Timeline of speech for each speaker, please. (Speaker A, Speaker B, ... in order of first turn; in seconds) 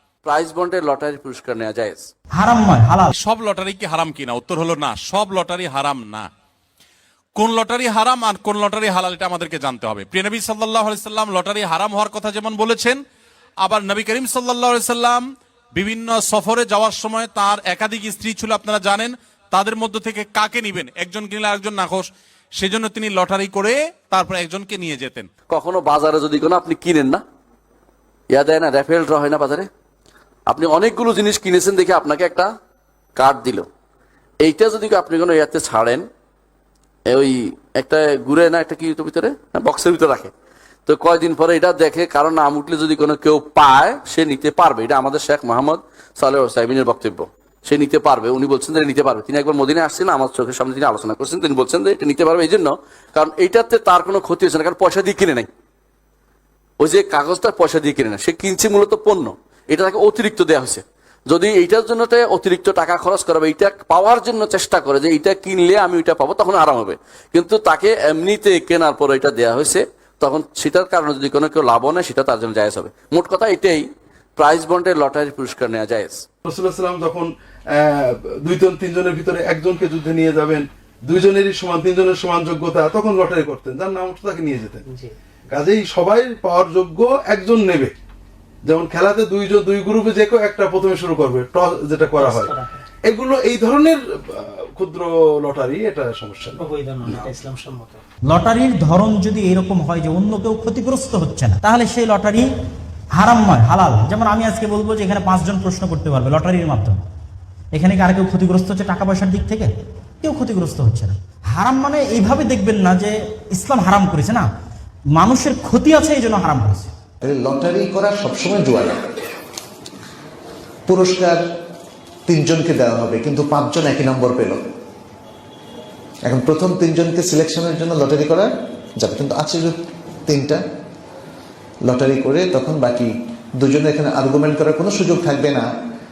Speaker A: 0.2-2.1, 25.5-27.2, 28.3-29.7, 30.5-32.5, 33.2-33.7, 34.4-36.1, 37.1-40.3, 40.9-55.5, 56.8-73.8, 74.4-76.2
Speaker B: 2.4-3.1, 98.3-102.5, 103.2-107.0, 107.8-109.7, 110.2-114.5, 115.2-116.9
Speaker C: 3.2-6.3, 7.4-13.0, 13.6-15.2, 15.8-25.3
Speaker D: 76.4-84.8, 85.5-87.9, 88.6-92.5, 93.1-97.3
Speaker E: 84.9-85.1, 92.2-92.8, 96.6-98.0
Speaker F: 117.2-119.2, 120.9-121.4, 122.3-124.6, 126.2-130.6, 131.9-135.7